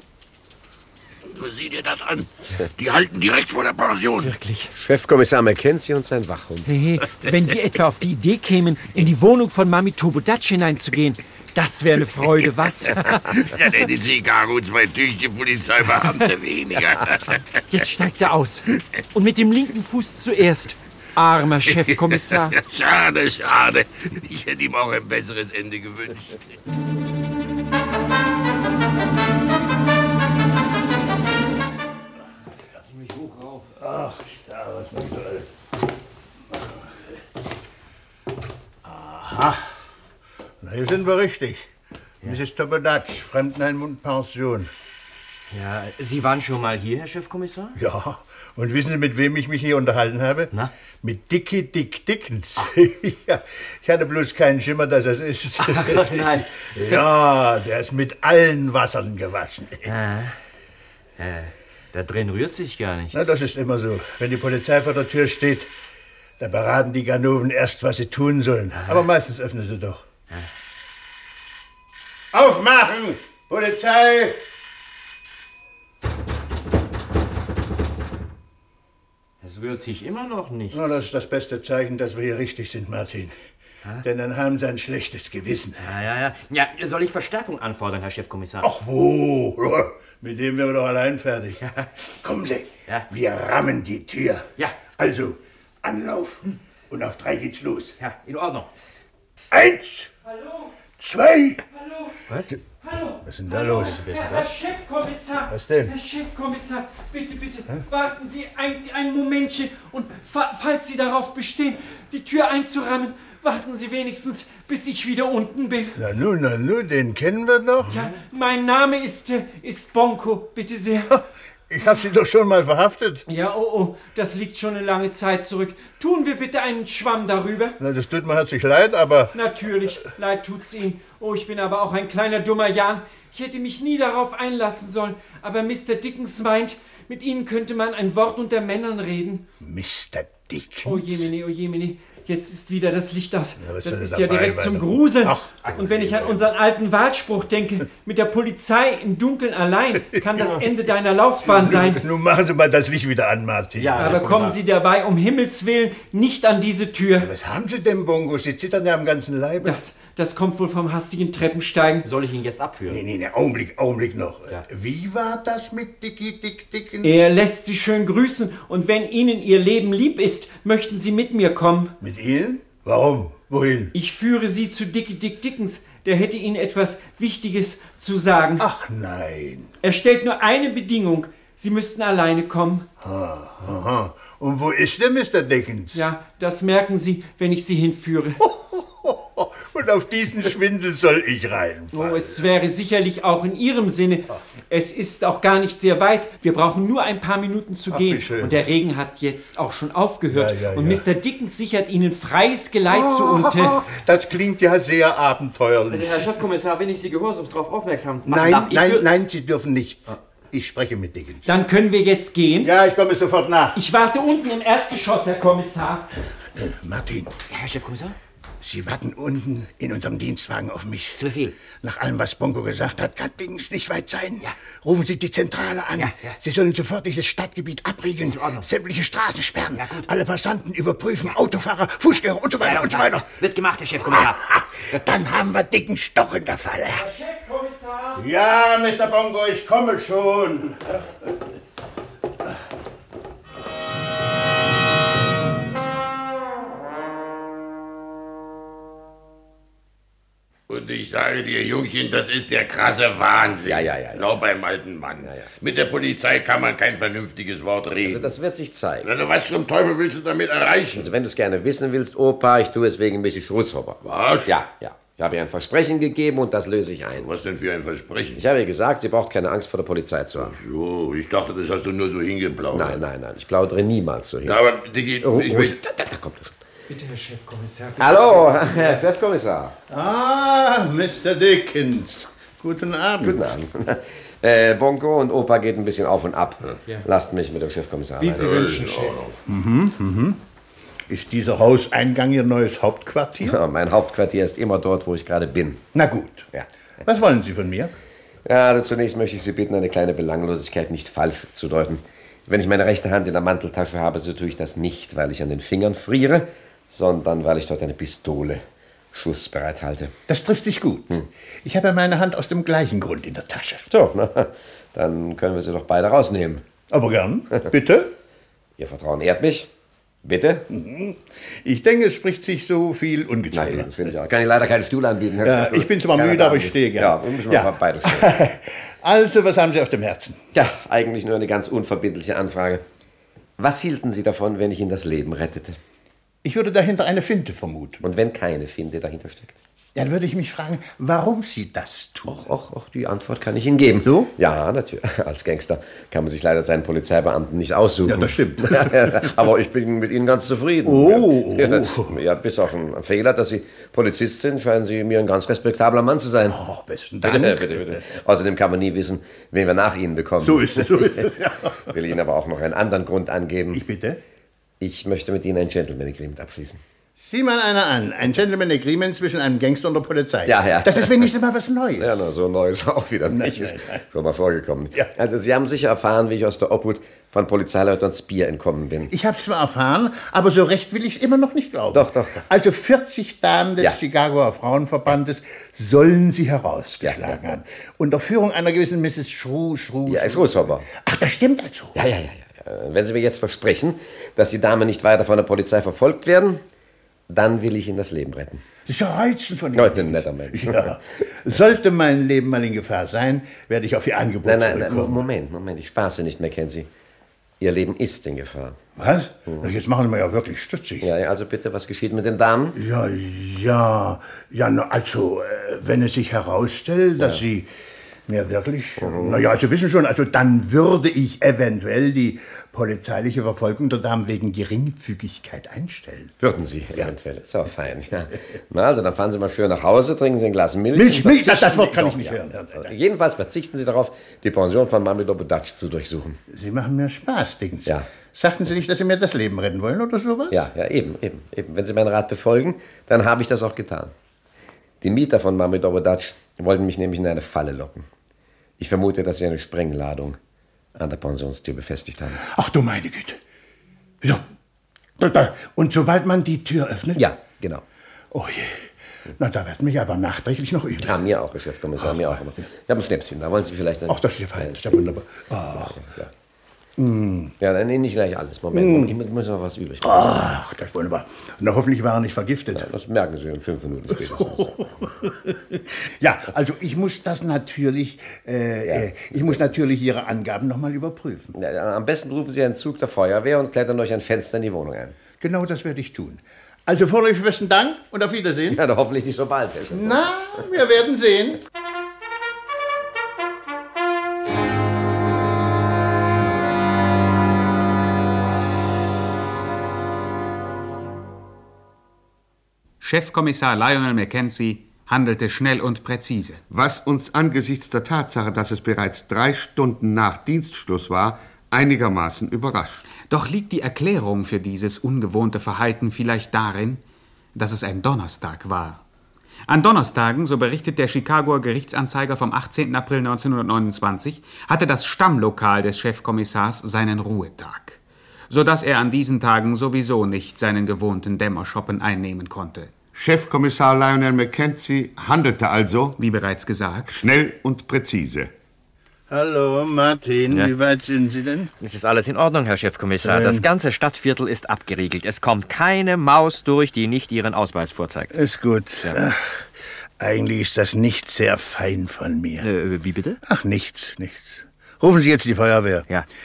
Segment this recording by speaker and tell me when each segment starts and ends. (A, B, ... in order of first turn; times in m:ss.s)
0:01.2-0:04.4 A
0:04.7-0:06.7 B
0:06.6-0:13.6 C
0:13.3-0:17.4 A
0:17.7-0:22.6 C
0:21.7-0:26.4 A
0:32.8-0:33.6 D
0:33.8-0:35.5 E
0:36.5-0:37.0 E
0:38.8-0:39.6 E
0:40.6-0:41.6 E
0:42.2-0:44.7 E
0:45.5-0:47.8 D
0:47.8-0:59.9 E
0:55.6-0:57.0 D
0:59.8-1:00.3 D
1:01.2-1:03.4 D
1:03.1-1:05.7 E
1:06.4-1:10.0 E
1:08.7-1:09.1 D
1:12.3-1:14.4 E
1:19.4-1:21.0 D
1:20.7-1:23.3 E
1:24.0-1:25.8 E
1:25.8-1:28.7 D
1:28.6-1:31.6 E
1:31.6-1:31.9 D
1:32.2-1:38.0 E
1:34.6-1:35.0 D
1:38.0-1:38.7 D
1:39.5-1:40.1 E
1:40.2-1:40.7 C
1:41.0-1:41.6 E
1:41.7-1:42.2 C
1:42.8-1:56.0 C
1:43.2-1:44.1 E
1:43.9-1:44.4 D
1:45.5-1:45.9 E
1:56.0-1:58.0 E
1:57.9-2:01.1 C
2:01.1-2:03.2 E
2:03.3-2:07.8 C
2:07.8-2:09.4 E
2:09.3-2:19.5 C
2:19.6-2:21.3 E
2:20.8-2:32.1 C
2:23.6-2:26.4 E
2:30.3-2:30.6 E
2:31.4-2:34.4 E
2:33.8-2:34.6 D
2:34.0-2:37.3 C
2:37.2-2:39.8 E
2:39.6-2:42.1 C
2:42.0-2:43.0 D
2:42.9-2:47.2 E
2:47.0-2:51.9 C
2:52.0-2:53.9 E
2:53.9-2:58.6 C
2:58.6-2:59.7 E
2:59.8-3:02.9 C
3:03.0-3:06.0 E
3:05.9-3:08.4 C
3:08.4-3:12.4 E
3:11.9-3:23.8 C
3:17.9-3:18.6 E
3:20.3-3:21.0 E
3:22.9-3:26.3 E
3:25.9-3:29.1 D
3:28.3-3:31.5 E
3:31.4-3:32.7 C
3:32.6-3:33.8 E
3:33.7-3:36.1 C
3:36.6-3:37.3 E
3:37.5-3:38.2 D
3:38.6-3:41.2 E
3:41.2-3:41.6 D
3:41.7-3:53.3 E
3:46.0-3:46.4 D
3:48.2-3:48.7 D
3:49.8-3:50.1 D
3:52.6-3:54.4 D
3:54.2-3:57.0 E
3:56.9-3:58.3 C
3:58.2-4:01.0 E
4:10.7-4:18.3 A
4:13.6-4:14.3 B
4:15.2-4:15.5 B
4:18.0-4:19.1 B
4:19.0-4:21.1 A
4:20.9-4:27.3 B
4:24.0-4:24.6 A
4:27.2-4:28.4 A
4:28.3-4:30.6 B
4:30.4-4:33.0 A
4:32.7-4:34.6 B
4:34.4-4:35.8 A
4:35.2-4:36.6 B
4:36.9-4:39.0 D
4:37.0-4:38.0 C
4:38.0-4:39.8 B
4:39.9-4:43.5 E
4:43.2-4:48.7 B
4:48.3-4:49.4 A
4:49.4-4:50.4 E
4:51.1-4:53.6 E
4:53.4-4:55.8 B
4:55.9-4:56.5 E
4:57.0-4:57.9 E
4:58.4-5:10.1 B
5:10.3-5:13.9 E
5:13.9-5:16.6 B
5:16.9-5:18.1 E
5:18.8-5:19.7 B
5:20.2-5:20.6 B
5:20.7-5:23.9 E
5:23.5-5:28.5 B
5:25.4-5:30.4 E
5:30.5-5:32.8 B
5:33.6-5:35.8 B
5:36.4-5:38.0 E
5:38.0-5:39.6 B
5:39.9-5:42.4 E
5:42.3-5:56.6 B
5:44.0-5:44.3 E
5:48.0-5:49.3 E
5:50.8-5:52.1 E
5:56.5-5:58.0 E
5:57.2-6:01.4 B
6:00.4-6:01.8 E
6:01.9-6:03.8 B
6:03.7-6:04.2 E
6:04.8-6:06.8 B
6:07.2-6:12.3 E
6:10.4-6:11.3 B
6:12.0-6:19.1 B
6:13.3-6:14.0 E
6:19.1-6:31.9 E
6:21.9-6:22.4 B
6:27.0-6:27.4 B
6:30.1-6:30.9 B
6:31.9-6:36.6 B
6:37.3-6:38.6 B
6:38.9-6:45.2 E
6:39.8-6:41.0 B
6:44.4-6:46.9 B
6:47.6-6:48.8 B
6:49.0-6:51.1 E
6:51.0-6:52.8 B
6:52.8-6:57.7 E
6:58.3-7:06.3 E
6:59.0-6:59.4 B
7:06.4-7:16.4 B
7:10.9-7:12.9 E
7:16.5-7:20.6 E
7:20.5-7:24.1 B
7:25.0-7:28.1 B
7:28.8-7:30.4 B
7:31.0-7:32.4 B
7:32.4-7:33.4 E
7:35.2-7:37.2 E
7:37.2-7:37.8 B
7:38.3-7:38.9 E
7:39.4-7:41.2 E
7:41.0-7:45.1 B
7:42.0-7:42.4 E
7:44.1-7:46.0 E
7:45.7-7:46.3 B
7:47.0-7:47.5 E
7:47.6-7:50.5 B
7:48.7-7:49.1 E
7:50.0-7:52.9 E
7:52.7-7:55.1 B
7:54.1-8:01.5 E
7:58.9-7:59.6 B
8:01.5-8:05.2 B
8:05.4-8:08.8 E
8:08.7-8:10.3 B
8:09.9-8:11.6 E
8:23.0-8:26.6 F
8:26.7-8:33.0 G
8:33.3-8:37.0 F
8:37.6-8:39.0 F
8:39.7-8:48.0 F
8:48.5-8:52.9 F
8:53.1-8:56.2 G
8:56.2-8:57.2 F
8:57.1-8:58.5 G
8:59.3-9:01.7 E
9:01.8-9:08.3 D
9:03.2-9:03.6 E
9:08.3-9:09.7 E
9:10.2-9:12.6 E
9:12.6-9:13.4 D
9:13.4-9:16.0 E